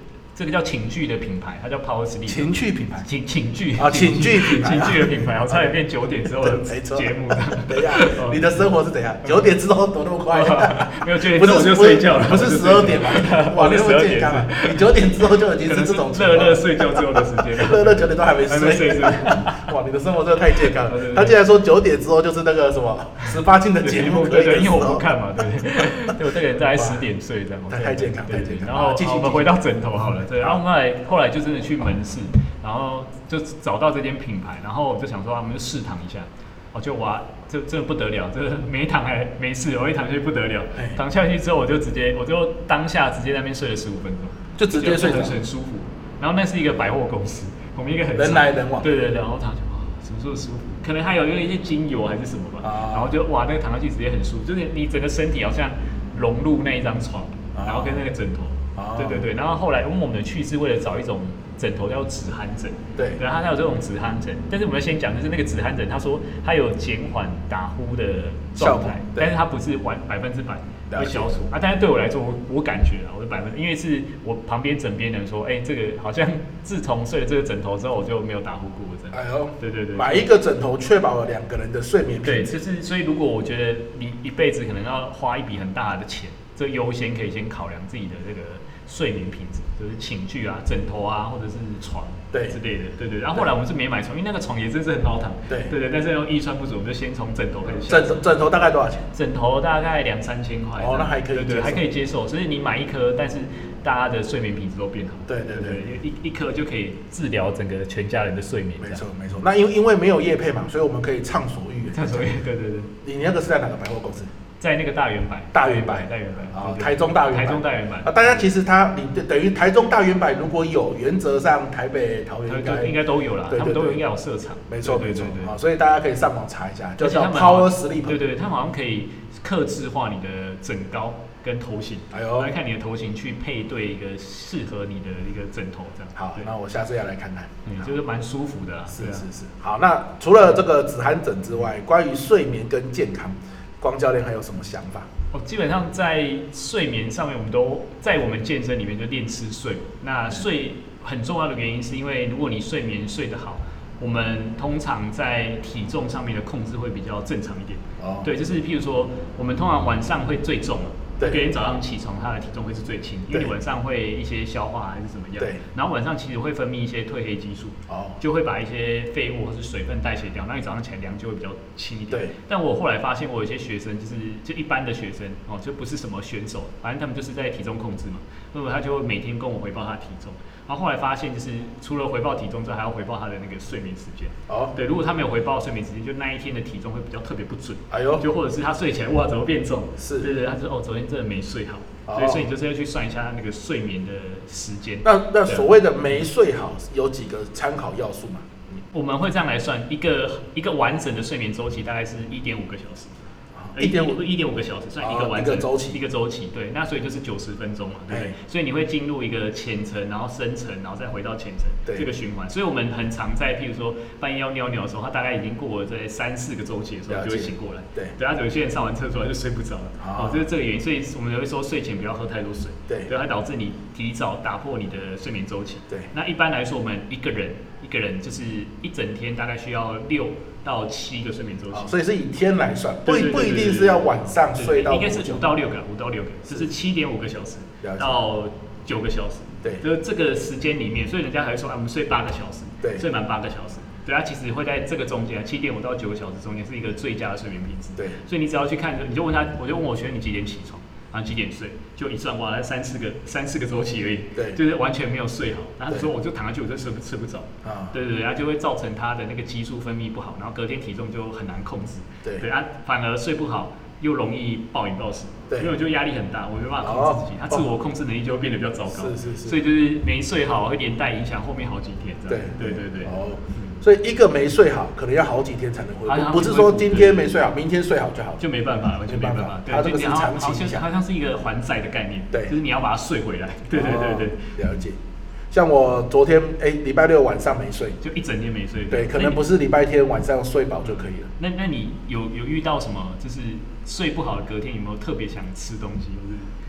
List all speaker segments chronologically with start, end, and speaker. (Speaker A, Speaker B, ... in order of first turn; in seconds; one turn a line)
Speaker A: 0.3-8.6
Speaker B: 2.3-3.1
Speaker B: 3.8-5.8
Speaker B: 6.3-25.1
Speaker A: 10.3-19.7
Speaker A: 20.5-21.4
Speaker A: 23.2-80.3
Speaker B: 26.7-27.1
Speaker B: 27.7-29.6
Speaker B: 44.6-45.4
Speaker B: 48.2-48.9
Speaker B: 52.6-53.1
Speaker B: 57.5-58.0
Speaker B: 58.8-59.3
Speaker B: 68.6-69.3
Speaker B: 70.9-71.4
Speaker B: 79.1-82.5
Speaker A: 82.2-98.2
Speaker B: 92.3-92.6
Speaker B: 95.5-95.7
Speaker B: 97.9-99.1
Speaker A: 99.1-109.0
Speaker B: 100.8-101.9
Speaker B: 105.3-105.8
Speaker B: 108.8-112.3
Speaker A: 111.9-112.9
Speaker B: 113.0-114.3
Speaker A: 114.6-118.5
Speaker B: 115.5-123.0
Speaker A: 122.5-125.5
Speaker B: 123.5-124.0
Speaker B: 124.7-128.2
Speaker A: 127.0-136.4
Speaker B: 132.1-132.5
Speaker B: 136.2-137.9
Speaker A: 137.7-139.3
Speaker B: 138.9-145.1
Speaker A: 145.3-195.7
Speaker B: 158.0-158.3
Speaker B: 161.2-161.5
Speaker B: 167.9-168.2
Speaker B: 184.5-184.8
Speaker B: 187.9-188.2
Speaker B: 190.0-190.3
Speaker B: 192.1-192.5
Speaker B: 195.0-198.7
Speaker A: 198.9-203.2
Speaker B: 203.6-204.2
Speaker A: 203.8-231.9
Speaker B: 205.0-206.0
Speaker B: 208.1-208.3
Speaker B: 217.1-218.2
Speaker B: 220.0-220.4
Speaker B: 231.7-235.5
Speaker A: 233.1-273.8
Speaker B: 237.8-238.2
Speaker B: 257.6-257.9
Speaker B: 266.8-267.6
Speaker B: 268.9-269.6
Speaker B: 272.3-278.4
Speaker A: 276.1-277.3
Speaker A: 278.4-284.6
Speaker B: 279.1-280.8
Speaker B: 283.7-285.0
Speaker B: 285.5-288.0
Speaker A: 288.0-289.4
Speaker B: 288.9-291.3
Speaker A: 290.8-296.5